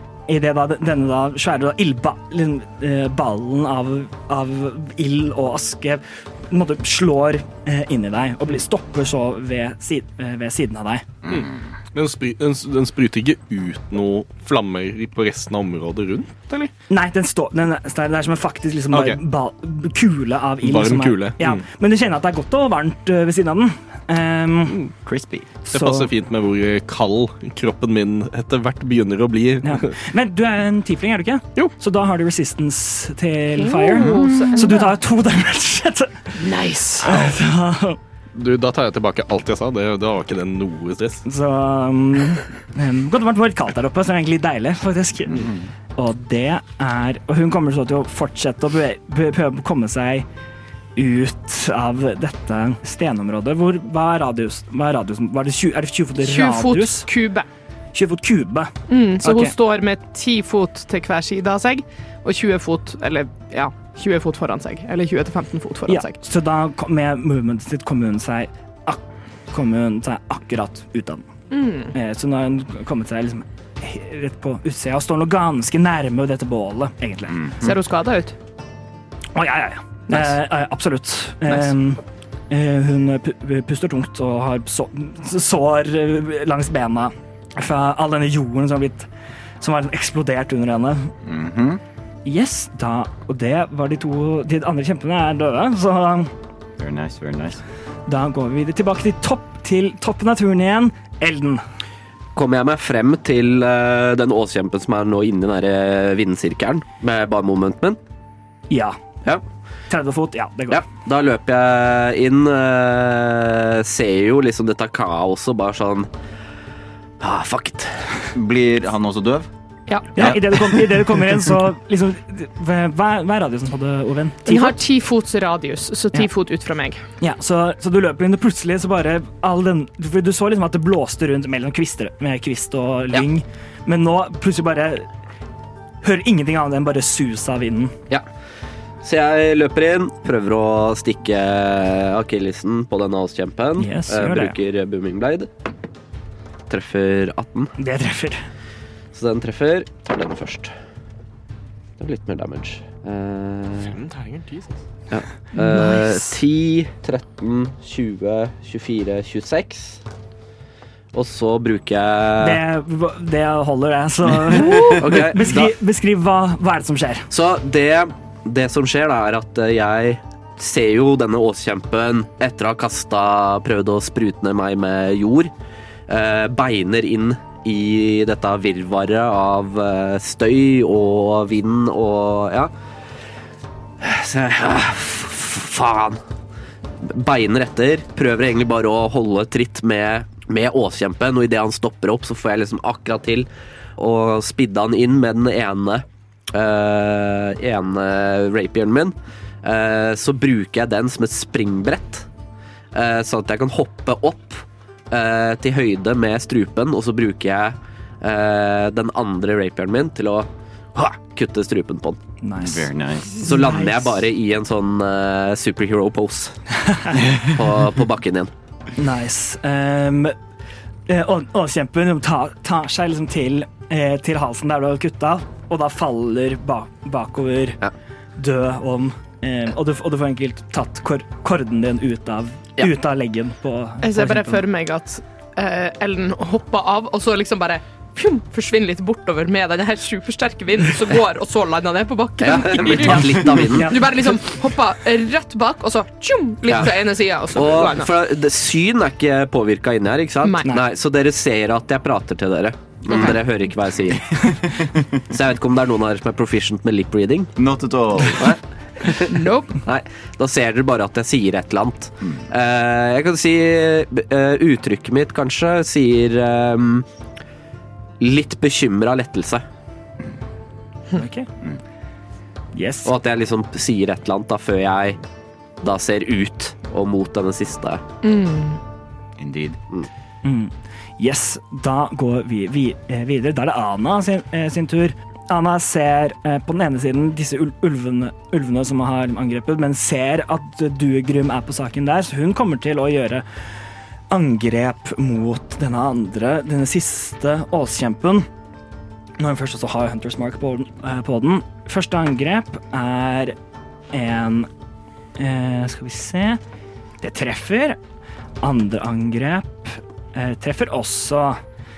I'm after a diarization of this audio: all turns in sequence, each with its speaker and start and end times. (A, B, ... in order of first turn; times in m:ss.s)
0:00.3-0:11.1 A
0:11.2-0:11.5 B
0:11.3-0:16.7 C
0:16.9-0:24.9 A
0:18.9-0:19.2 C
0:20.6-0:21.6 C
0:25.0-0:25.5 B
0:25.6-0:26.1 A
0:25.7-0:30.0 C
0:29.6-0:38.0 A
0:33.6-0:34.9 D
0:34.0-0:34.7 B
0:36.4-0:37.3 D
0:38.4-0:41.2 C
0:41.2-0:50.3 A
0:51.0-0:57.1 A
0:56.2-0:57.5 D
0:57.9-0:59.5 A
0:58.9-1:06.2 D
1:05.9-1:11.3 A
1:11.5-1:11.9 D
1:11.9-1:17.5 A
1:17.3-1:17.7 B
1:17.6-1:18.4 D
1:19.4-1:29.1 A
1:20.1-1:20.4 D
1:29.6-1:31.1 A
1:31.2-1:31.8 B
1:32.2-1:36.3 A
1:36.8-1:37.6 B
1:38.1-1:41.6 A
1:42.4-1:48.0 E
1:48.7-1:49.0 A
1:49.9-1:50.8 A
1:50.7-1:56.1 E
1:57.2-1:58.3 E
1:58.3-1:59.5 B
1:59.9-2:00.2 D
2:00.2-2:00.4 B
2:00.2-2:04.8 A
2:04.4-2:07.0 D
2:07.2-2:15.1 A
2:16.0-2:18.0 A
2:19.0-2:25.5 E
2:23.8-2:24.6 A
2:26.7-2:27.8 E
2:27.8-2:28.4 A
2:29.1-2:30.7 E
2:32.0-2:34.0 E
2:33.9-2:34.8 C
2:35.1-2:40.0 E
2:35.6-2:36.0 A
2:41.1-2:42.6 E
2:42.4-2:47.3 A
2:44.9-2:45.7 E
2:47.3-2:55.5 E
2:56.1-3:02.7 E
3:04.0-3:06.2 E
3:07.0-3:22.3 E
3:22.9-3:32.2 E
3:32.4-3:32.9 A
3:32.6-3:33.4 B
3:33.4-3:36.6 E
3:36.9-3:37.2 A
3:37.4-3:38.5 E
3:39.0-3:40.4 A
3:41.1-3:47.8 A
3:48.4-3:54.6 A
3:54.0-4:08.1 D
4:02.4-4:04.0 E
4:03.5-4:04.2 A
4:06.7-4:07.0 E
4:07.5-4:14.5 E
4:10.4-4:10.7 D
4:14.4-4:15.2 B
4:15.3-4:17.5 E
4:17.6-4:18.6 B
4:18.4-4:27.1 E
4:19.3-4:19.8 D
4:28.2-4:29.6 E
4:31.1-4:31.5 A
4:32.7-4:33.1 A
4:33.0-4:35.2 E
4:35.8-4:38.0 E
4:38.2-4:38.8 D
4:39.4-4:39.8 B
4:40.4-4:53.4 A
4:54.3-4:58.5 A
4:59.4-5:03.6 A
5:04.1-5:04.7 A
5:05.4-5:06.6 A
5:07.2-5:08.0 A
5:08.6-5:11.6 A